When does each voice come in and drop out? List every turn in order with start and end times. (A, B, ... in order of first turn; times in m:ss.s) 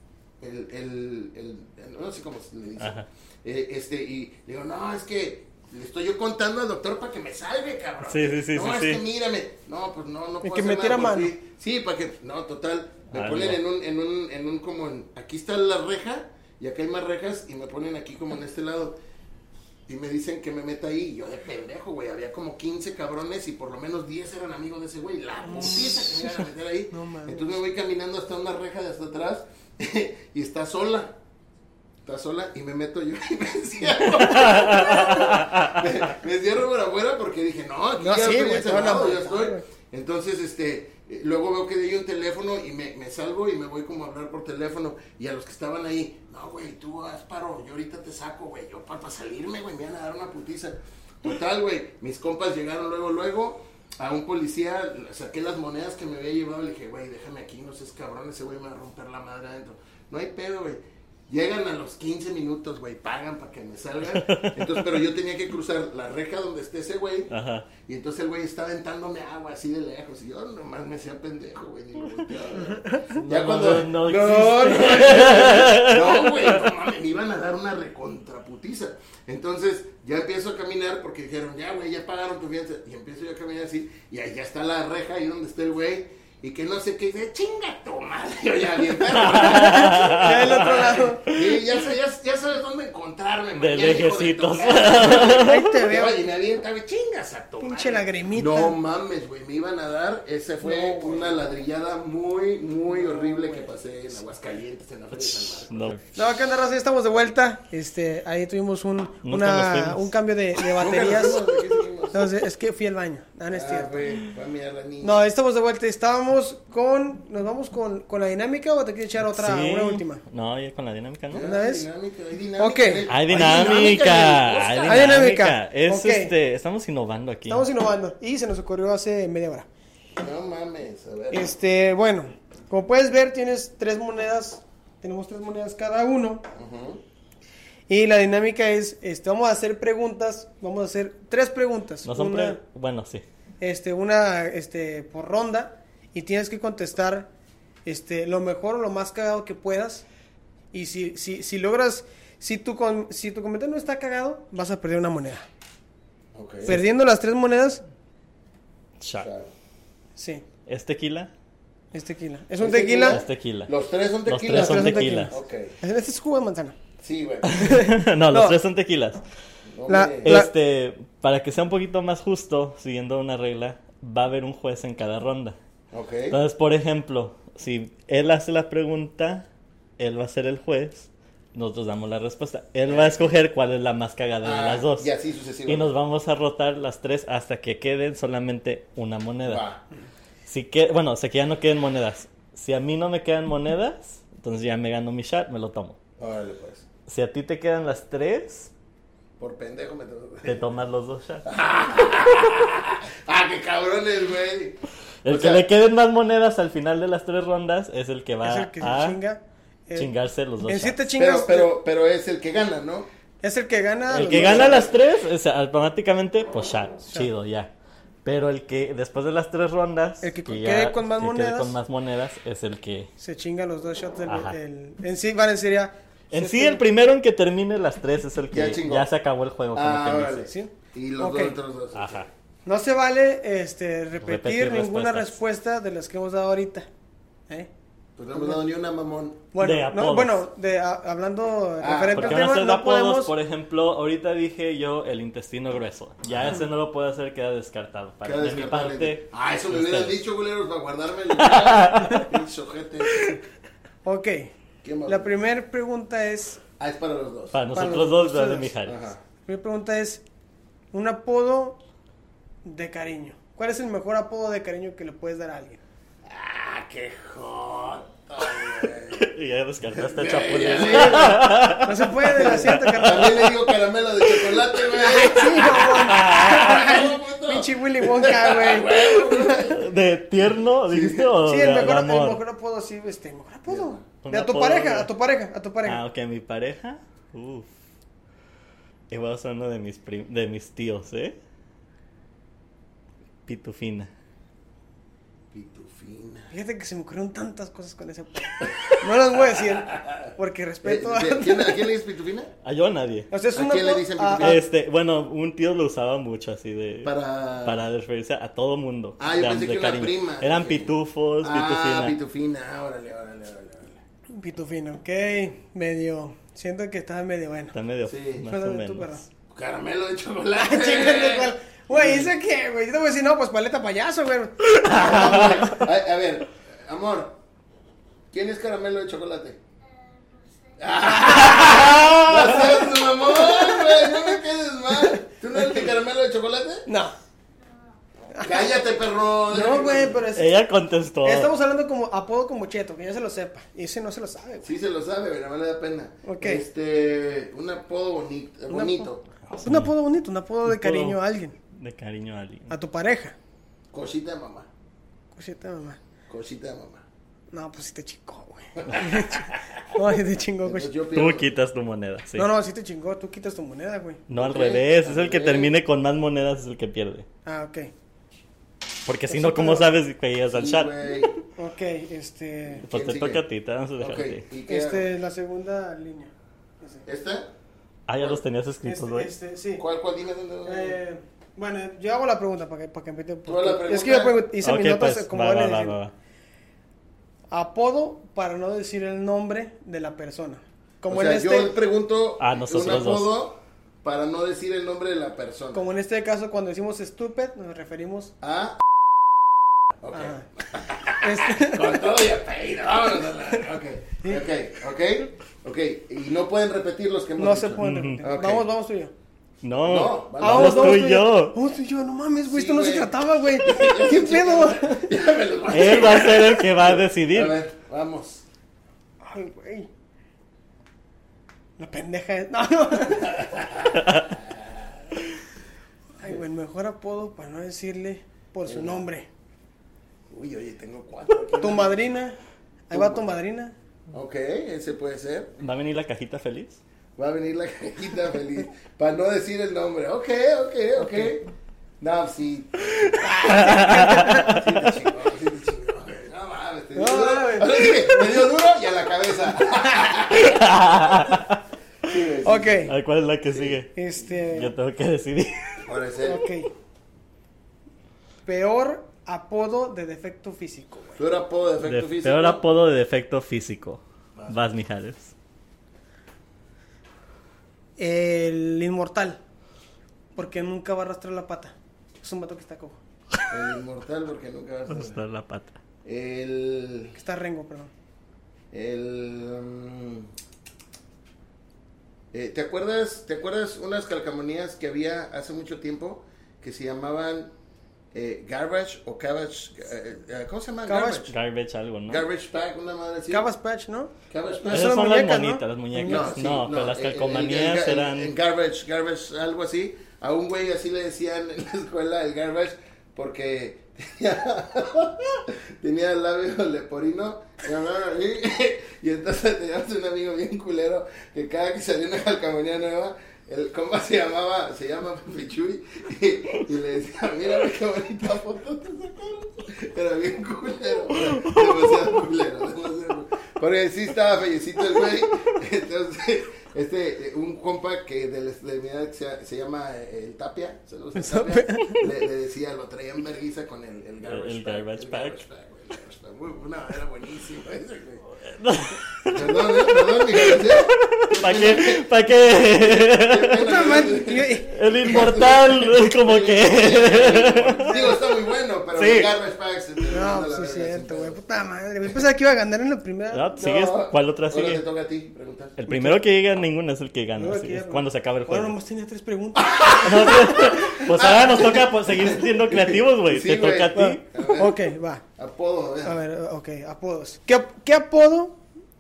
0:00.4-0:19.0 A
0:02.8-0:03.1 B
0:08.0-0:09.0 B
0:10.4-0:11.3 C
0:13.1-0:13.6 B
0:19.9-0:31.2 A
0:25.4-0:27.5 C
0:32.0-1:45.9 A
0:34.2-0:35.8 B
0:38.0-0:39.6 C
1:04.1-1:04.9 B
1:07.3-1:07.7 B
1:12.6-1:13.1 C
1:13.1-1:16.6 B
1:29.1-1:31.5 B
1:29.4-1:31.3 C
1:33.5-1:35.8 B
1:35.1-1:36.2 C
1:37.6-1:38.7 C
1:40.6-1:41.5 C
1:42.9-1:43.7 C
1:45.7-1:46.0 B
1:46.1-1:51.4 C
1:49.2-1:50.1 B
1:50.7-1:52.2 A
1:52.1-1:54.0 C
1:53.5-1:55.2 A
1:55.0-2:00.2 C
1:59.2-2:01.5 B
2:01.3-2:05.2 A
2:01.4-2:01.9 C
2:02.6-2:03.1 C
2:03.1-2:07.6 B
2:04.8-2:06.3 C
2:07.5-2:09.7 C
2:10.2-2:11.5 A
2:11.3-2:16.4 C
2:16.6-2:17.0 A
2:17.9-2:22.6 C
2:22.0-2:23.2 B
2:23.6-2:27.3 C
2:27.8-2:30.0 C
2:30.7-2:35.4 C
2:36.3-2:36.8 A
2:36.6-2:37.8 C
2:39.0-2:39.3 B
2:39.2-2:39.5 A
2:40.2-2:40.4 C
2:40.7-2:41.3 B
2:41.9-2:43.2 C
2:42.6-2:45.7 A
2:43.0-2:43.7 B
2:44.2-2:45.3 B
2:44.5-2:46.8 C
2:47.0-2:47.6 A
2:47.4-2:49.2 B
2:47.5-2:48.6 C
2:49.7-2:50.4 A
2:49.9-2:50.5 C
2:50.2-2:55.6 B
2:55.9-2:56.4 A
2:56.3-2:59.4 B
3:00.0-3:05.1 B
3:02.8-3:03.3 A
3:04.4-3:05.9 A
3:05.7-3:09.6 B
3:09.4-3:09.8 A
3:10.5-3:16.0 B
3:16.2-3:16.8 A
3:17.1-3:18.7 B
3:19.4-3:20.7 A
3:20.4-3:21.5 B
3:21.4-3:25.6 A
3:25.2-3:29.2 B
3:28.4-3:30.1 C
3:29.9-3:31.0 B
3:30.6-3:31.7 C
3:31.2-3:33.1 A
3:33.4-3:34.9 C
3:34.1-3:37.7 B
3:34.2-3:34.9 A
3:38.2-3:43.1 B
3:40.2-3:41.8 C
3:43.2-3:46.8 C
3:44.3-3:44.6 B
3:46.3-3:50.5 B
3:48.5-3:49.1 A
3:49.7-3:52.3 A
3:50.4-3:51.6 C
3:51.9-3:52.3 B
3:52.6-3:56.9 C
3:54.2-3:55.4 B
3:58.2-3:59.4 A
3:59.5-4:03.3 C
3:59.6-4:00.4 B
4:01.8-4:02.4 A
4:02.1-4:10.2 B
4:08.2-4:13.4 A
4:11.4-4:12.3 B
4:14.0-4:14.5 C
4:14.8-4:15.4 A
4:15.0-4:16.6 C
4:16.8-4:17.6 A
4:17.5-4:19.0 B
4:17.7-4:18.7 C
4:18.8-4:19.2 A
4:19.4-4:20.2 C
4:20.9-4:21.8 C
4:22.6-4:25.8 C
4:26.2-4:29.3 A
4:29.1-4:33.5 B
4:29.9-4:31.5 A
4:30.9-4:33.5 C
4:32.4-4:39.8 A
4:34.7-4:39.8 C
4:35.8-4:36.7 B
4:39.6-4:42.4 B
4:40.8-4:41.3 A
4:41.4-4:46.0 C
4:43.7-4:44.0 A
4:44.2-4:45.1 B
4:45.8-4:47.7 B
4:49.1-4:51.4 B
4:53.4-4:54.1 B
4:55.5-4:56.5 A
4:56.5-5:01.9 C
4:58.7-5:00.3 A
5:00.8-5:02.5 A
5:02.6-5:03.3 B
5:03.3-5:04.6 C
5:03.5-5:04.6 A
5:04.4-5:07.1 B
5:07.0-5:07.8 A
5:07.6-5:12.2 B
5:09.2-5:14.0 A
5:14.3-5:17.7 C
5:17.7-5:19.1 B
5:18.0-5:18.5 A
5:18.4-5:19.2 C
5:19.5-5:21.5 A
5:20.6-5:25.7 C
5:22.0-5:22.3 B
5:24.7-5:25.8 B
5:24.9-5:27.4 A
5:28.3-5:29.6 A
5:30.8-5:36.9 A
5:31.3-5:32.8 C
5:31.4-5:32.6 B
5:33.5-5:34.2 C
5:36.9-5:37.2 C
5:38.3-5:38.7 C
5:38.4-5:40.2 A
5:39.5-5:40.6 C
5:40.3-5:41.5 B
5:41.2-5:44.7 C
5:44.6-5:49.2 A
5:46.2-5:46.6 C
5:48.7-5:51.6 C
5:49.5-5:49.9 B
5:50.6-5:51.2 B
5:51.7-5:52.7 B
5:52.7-5:53.4 C
5:53.9-5:54.7 A
5:55.3-5:56.0 C
5:56.3-5:57.0 A
5:57.5-6:00.9 C
5:58.8-5:59.6 A
6:00.6-6:01.5 A
6:01.1-6:02.5 B
6:02.4-6:04.2 C
6:04.3-6:07.2 B
6:04.3-6:05.7 A
6:07.4-6:07.9 C
6:09.0-6:11.2 B
6:09.3-6:09.9 C
6:10.5-6:11.3 A
6:11.6-6:12.8 C
6:12.8-6:13.4 A
6:12.8-6:14.4 B
6:14.0-6:15.1 A
6:14.7-6:17.0 C
6:17.0-6:17.5 A
6:18.1-6:19.3 B
6:18.8-6:19.8 C
6:19.8-6:21.0 A
6:20.6-6:26.0 C
6:23.4-6:24.4 A
6:24.6-6:26.1 B
6:27.5-6:31.7 C
6:31.1-6:35.8 A
6:32.4-6:33.3 B
6:35.7-6:38.3 C
6:38.4-6:38.8 A
6:40.0-6:48.7 A
6:40.1-6:40.4 C
6:41.1-6:42.0 C
6:47.4-6:49.1 C
6:47.8-6:48.2 B
6:49.6-6:51.6 B
6:49.8-6:51.1 A
6:50.4-6:55.1 C
6:52.5-6:58.4 A
6:55.7-6:57.6 B
6:59.2-6:59.9 C
7:01.8-7:03.6 C
7:03.2-7:05.0 A
7:04.0-7:04.2 B
7:06.2-7:09.3 C
7:08.6-7:09.0 A
7:10.3-7:12.0 A
7:11.6-7:12.4 C
7:12.9-7:13.7 C
7:12.9-7:13.2 A
7:14.1-7:15.6 A
7:15.6-7:16.8 B
7:17.2-7:21.4 A
7:22.0-7:31.3 A
7:23.0-7:24.7 B
7:23.5-7:24.6 C
7:26.9-7:28.5 C
7:30.3-7:31.6 B
7:32.0-7:32.9 A
7:32.4-7:32.9 C
7:32.9-7:35.9 B
7:33.5-7:33.8 A
7:33.9-7:34.7 C
7:35.8-7:36.4 A
7:36.2-7:36.7 C
7:38.4-7:41.2 C
7:41.2-7:42.6 A
7:41.8-7:45.3 B
7:48.0-7:49.4 C
7:50.3-7:53.0 C
7:53.5-7:55.2 A
7:54.9-7:55.8 B
7:56.0-7:57.2 A
7:57.1-7:57.9 C
7:58.7-8:00.3 A
8:02.3-8:07.5 A
8:08.1-8:11.3 A
8:10.9-8:11.3 C
8:11.3-8:12.2 B
8:12.1-8:13.4 A
8:13.3-8:14.1 C
8:14.3-8:14.9 A
8:14.6-8:16.4 C
8:14.7-8:18.3 B
8:16.0-8:58.2 A
8:51.2-8:52.0 C
8:54.2-8:55.4 B
8:58.4-9:03.7 B
8:59.2-9:02.0 A
9:02.8-9:11.4 A
9:03.6-9:04.9 C
9:04.7-9:07.9 B
9:07.8-9:08.2 C
9:09.0-9:09.3 B
9:10.1-9:13.5 C
9:13.3-9:14.8 B
9:13.6-9:15.8 A
9:15.8-9:18.7 B
9:15.9-9:16.2 C
9:17.4-9:20.9 C
9:19.6-9:24.8 A
9:19.9-9:24.2 B
9:23.9-9:25.2 C
9:25.4-9:26.2 A
9:26.0-9:28.6 C